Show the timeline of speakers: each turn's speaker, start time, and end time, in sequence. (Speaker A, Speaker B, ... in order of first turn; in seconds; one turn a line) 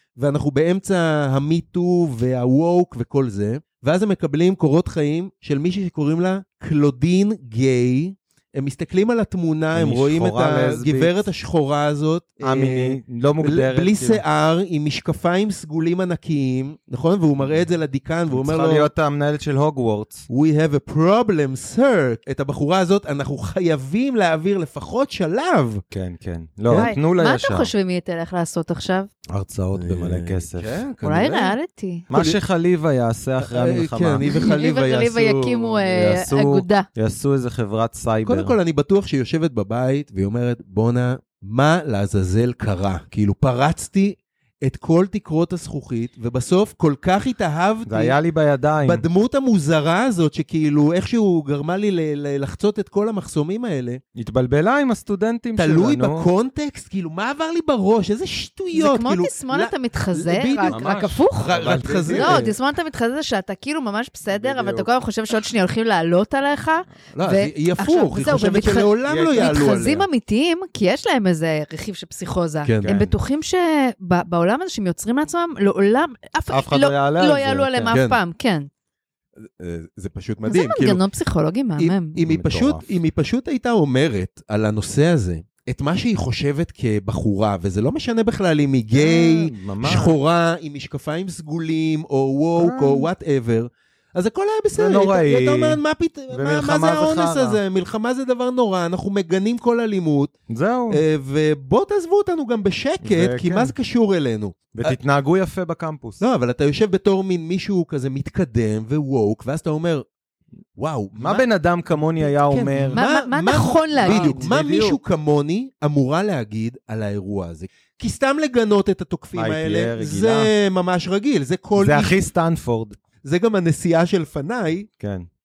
Speaker A: 0.2-18.9
Speaker B: 9.7-11.2
Speaker B: 12.4-14.2
Speaker B: 18.3-20.2
Speaker A: 20.3-25.8
Speaker B: 25.9-27.7
Speaker A: 26.7-26.9
Speaker C: 26.7-29.1
Speaker B: 29.3-30.8
Speaker A: 29.8-31.5
Speaker C: 31.0-32.0
Speaker B: 32.1-34.3
Speaker A: 32.1-32.4
Speaker A: 33.4-35.7
Speaker C: 34.3-36.9
Speaker B: 35.9-38.5
Speaker A: 38.2-48.1
Speaker B: 47.9-49.0
Speaker A: 48.8-54.0
Speaker B: 54.1-56.3
Speaker A: 55.6-62.5
Speaker C: 58.7-61.5
Speaker B: 60.7-62.5
Speaker C: 62.1-78.7
Speaker B: 64.3-64.9
Speaker A: 67.1-70.1
Speaker B: 69.0-69.6
Speaker A: 72.6-72.9
Speaker B: 72.8-73.1
Speaker B: 76.5-77.9
Speaker A: 77.9-78.2
Speaker A: 79.4-81.0
Speaker C: 80.5-82.2
Speaker A: 81.8-100.3
Speaker B: 82.2-82.8
Speaker B: 88.9-90.2
Speaker B: 92.6-93.1
Speaker B: 94.8-97.6
Speaker B: 100.5-101.0
Speaker A: 100.9-105.0
Speaker B: 103.0-103.7
Speaker B: 104.7-106.2
Speaker A: 106.2-110.0
Speaker A: 110.8-111.5
Speaker B: 111.2-113.0
Speaker A: 112.2-122.2
Speaker C: 112.9-114.5
Speaker B: 114.0-115.0
Speaker B: 119.3-120.5
Speaker B: 121.8-123.0
Speaker A: 123.2-124.9
Speaker B: 125.0-125.3